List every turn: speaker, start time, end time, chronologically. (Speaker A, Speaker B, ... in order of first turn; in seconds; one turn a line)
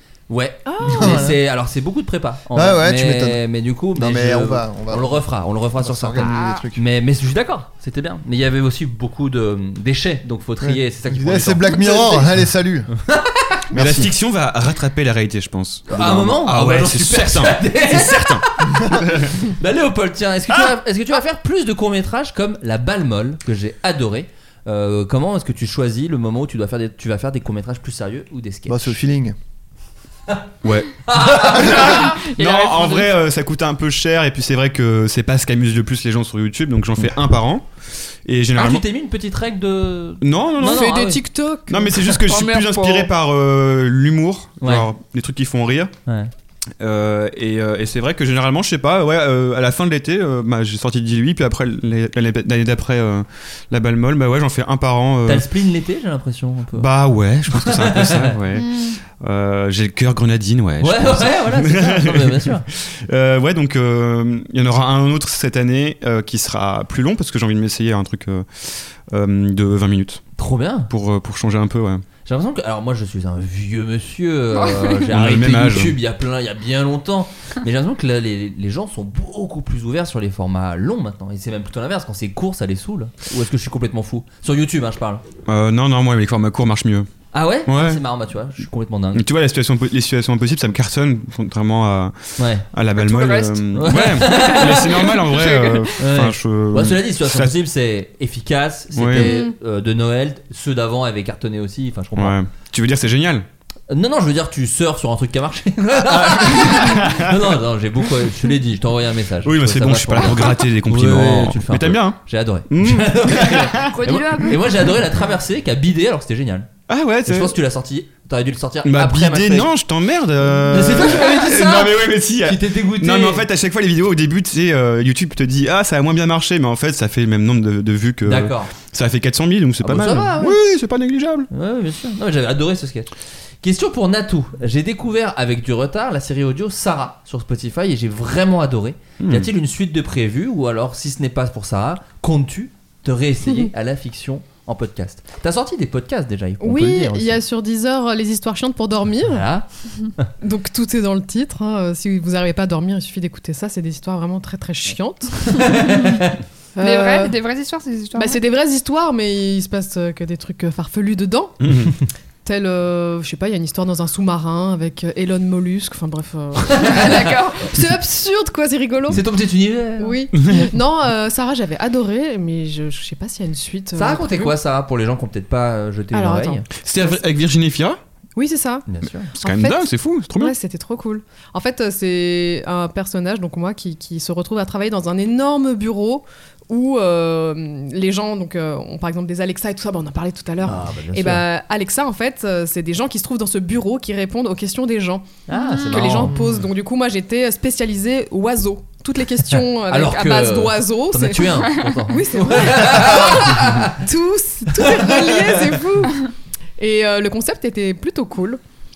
Speaker A: 0.3-12.3
Speaker B: 0.7-1.2
Speaker C: 0.8-1.4
Speaker C: 2.5-3.4
Speaker C: 3.9-5.2
Speaker C: 5.8-6.8
Speaker D: 6.2-6.7
Speaker C: 10.6-12.9
Speaker A: 13.0-13.6
Speaker C: 13.7-14.1
Speaker E: 13.7-19.4
Speaker A: 15.9-28.9
Speaker C: 28.7-29.4
Speaker E: 30.6-37.7
Speaker A: 31.1-32.1
Speaker D: 31.7-33.1
Speaker E: 38.2-38.8
Speaker A: 38.5-41.2
Speaker E: 40.2-40.9
Speaker B: 40.6-42.2
Speaker E: 41.7-45.9
Speaker D: 42.3-43.1
Speaker A: 44.6-44.9
Speaker A: 46.0-46.3
Speaker E: 46.8-55.5
Speaker A: 55.2-56.9
Speaker E: 56.7-70.2
Speaker A: 57.5-58.3
Speaker D: 58.5-59.0
Speaker A: 60.8-62.6
Speaker A: 70.4-70.9
Speaker E: 70.9-72.0
Speaker A: 72.2-85.2
Speaker D: 74.5-75.0
Speaker E: 75.1-76.0
Speaker E: 85.5-87.1
Speaker A: 87.3-89.3
Speaker E: 87.7-88.0
Speaker E: 89.1-97.5
Speaker A: 92.4-92.7
Speaker D: 93.0-96.0
Speaker A: 93.7-94.9
Speaker A: 96.0-102.4
Speaker E: 98.9-99.3
Speaker B: 99.2-99.5
Speaker E: 102.2-103.5
Speaker A: 103.9-116.7
Speaker E: 106.0-107.5
Speaker E: 109.4-114.4
Speaker D: 110.2-110.5
Speaker D: 113.7-114.7
Speaker E: 116.9-117.5
Speaker A: 117.2-119.7
Speaker E: 118.8-131.5
Speaker A: 120.7-121.8
Speaker D: 121.2-121.8
Speaker A: 122.4-123.5
Speaker A: 128.2-128.7
Speaker A: 129.8-130.6
Speaker A: 131.5-133.1
Speaker A: 133.6-147.4
Speaker E: 139.2-139.5
Speaker B: 146.6-149.5
Speaker A: 149.2-149.7
Speaker B: 150.4-157.3
Speaker A: 155.6-156.3
Speaker D: 156.8-158.4
Speaker B: 158.2-161.6
Speaker E: 161.6-161.9
Speaker B: 162.4-169.2
Speaker A: 166.7-167.1
Speaker D: 166.9-167.7
Speaker A: 169.1-170.2
Speaker B: 170.0-174.5
Speaker E: 170.4-170.7
Speaker A: 173.9-176.6
Speaker B: 176.1-177.1
Speaker E: 176.7-178.0
Speaker B: 178.3-178.9
Speaker A: 178.9-179.3
Speaker B: 179.4-208.6
Speaker E: 179.4-180.6
Speaker A: 190.6-191.4
Speaker A: 195.5-196.3
Speaker C: 196.2-196.6
Speaker A: 199.5-204.0
Speaker A: 204.8-205.3